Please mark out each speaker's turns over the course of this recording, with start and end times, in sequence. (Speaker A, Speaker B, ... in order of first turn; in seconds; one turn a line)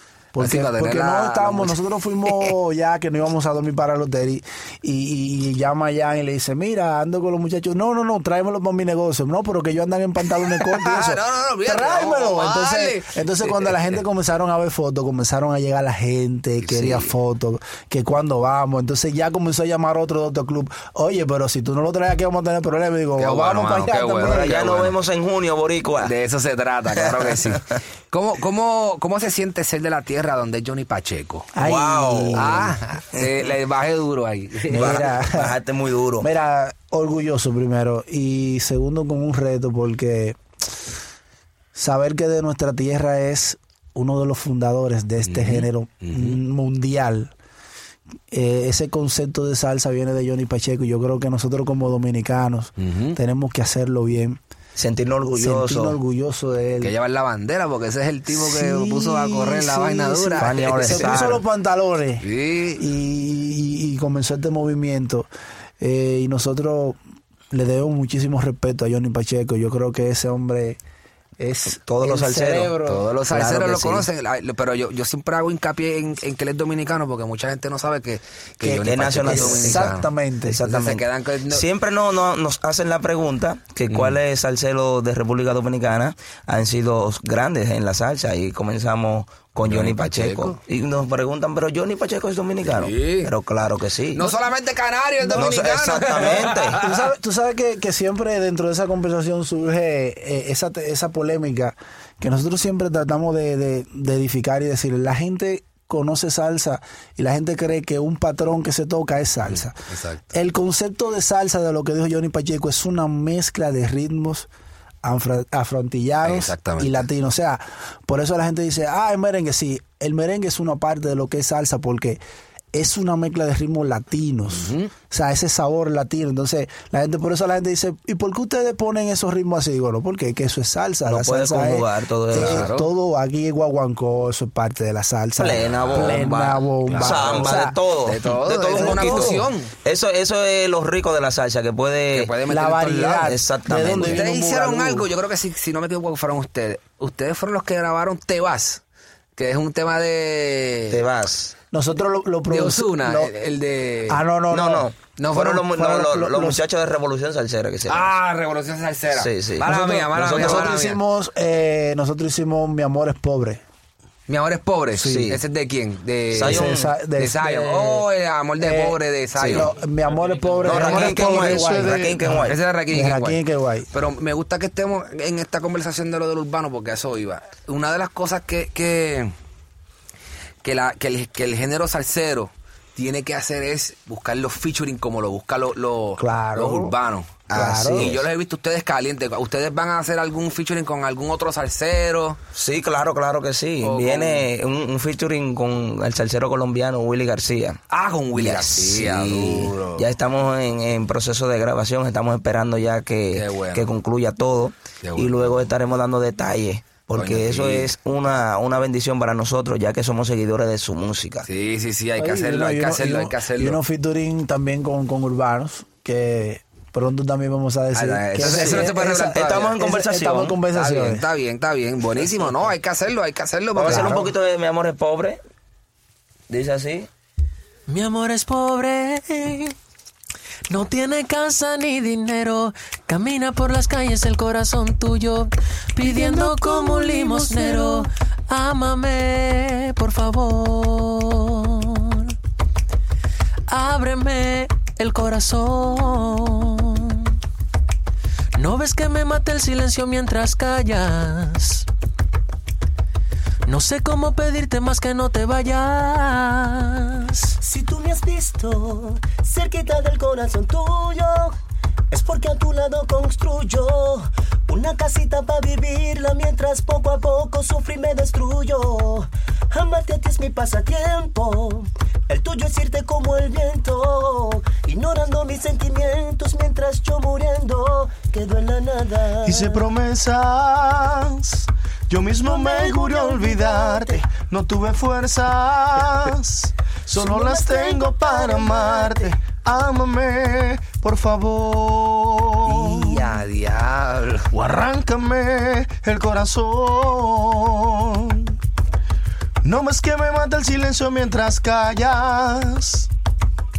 Speaker A: 0.3-24.5
Speaker B: 0.4-2.5
Speaker B: 10.6-14.0
Speaker B: 16.6-17.1
Speaker B: 23.2-24.9
Speaker C: 24.2-26.1
Speaker B: 26.0-31.5
Speaker C: 26.9-27.7
Speaker A: 31.5-32.7
Speaker C: 31.6-33.5
Speaker B: 32.3-35.1
Speaker C: 34.7-36.3
Speaker A: 34.7-35.5
Speaker A: 36.2-40.4
Speaker A: 41.7-47.3
Speaker B: 45.2-46.4
Speaker A: 48.3-54.4
Speaker B: 52.8-53.2
Speaker C: 54.8-56.0
Speaker A: 55.4-56.9
Speaker B: 56.8-61.4
Speaker A: 58.3-62.2
Speaker C: 60.4-61.4
Speaker B: 62.2-62.8
Speaker A: 62.8-65.3
Speaker A: 65.8-67.0
Speaker A: 67.5-70.8
Speaker A: 71.4-73.0
Speaker C: 71.7-72.8
Speaker B: 72.8-80.1
Speaker C: 73.3-74.1
Speaker A: 78.6-80.6
Speaker C: 78.8-94.3
Speaker B: 80.6-81.6
Speaker B: 83.9-84.2
Speaker B: 89.6-90.6
Speaker B: 92.7-93.3
Speaker B: 94.1-97.0
Speaker A: 95.2-109.8
Speaker C: 95.3-96.8
Speaker B: 109.5-110.2
Speaker A: 110.3-114.5
Speaker A: 115.0-122.2
Speaker B: 116.2-117.1
Speaker A: 122.7-137.8
Speaker B: 124.5-124.9
Speaker C: 131.0-132.7
Speaker B: 132.3-132.9
Speaker C: 135.3-142.4
Speaker B: 135.7-139.7
Speaker A: 138.7-139.5
Speaker B: 142.1-143.3
Speaker A: 142.5-145.1
Speaker C: 143.1-144.3
Speaker B: 143.9-148.8
Speaker B: 149.4-151.0
Speaker C: 150.9-151.5
Speaker A: 151.7-153.3
Speaker B: 152.5-154.2
Speaker A: 154.1-156.6
Speaker C: 154.5-158.1
Speaker B: 155.2-155.6
Speaker B: 157.9-161.0
Speaker C: 159.1-160.8
Speaker A: 159.7-163.6
Speaker B: 164.3-171.6
Speaker C: 164.9-165.4
Speaker A: 165.0-165.2
Speaker C: 166.3-166.9
Speaker A: 166.4-168.0
Speaker A: 168.6-173.9
Speaker C: 169.3-169.7
Speaker C: 170.6-172.6
Speaker B: 172.2-173.4
Speaker B: 173.9-179.3
Speaker B: 180.6-192.4
Speaker A: 186.2-186.9
Speaker C: 187.5-188.2
Speaker A: 187.5-188.1
Speaker C: 192.5-197.8
Speaker B: 193.8-194.5
Speaker B: 197.9-200.0
Speaker C: 198.3-211.5
Speaker B: 203.3-203.9
Speaker B: 205.0-205.6
Speaker B: 207.1-207.9
Speaker B: 211.4-213.8
Speaker A: 212.2-221.2
Speaker B: 217.9-219.8
Speaker C: 218.4-220.6
Speaker B: 220.7-224.2
Speaker C: 223.7-225.4
Speaker A: 223.8-224.3
Speaker C: 226.5-227.1
Speaker D: 227.9-229.7
Speaker D: 230.7-242.3
Speaker D: 243.7-247.3
Speaker D: 248.5-251.8
Speaker D: 253.6-257.5
Speaker E: 257.6-261.5
Speaker E: 262.1-279.8
Speaker F: 279.4-293.3
Speaker E: 282.4-284.2
Speaker E: 287.1-289.3
Speaker B: 292.6-294.5
Speaker F: 294.5-298.5
Speaker F: 299.6-303.1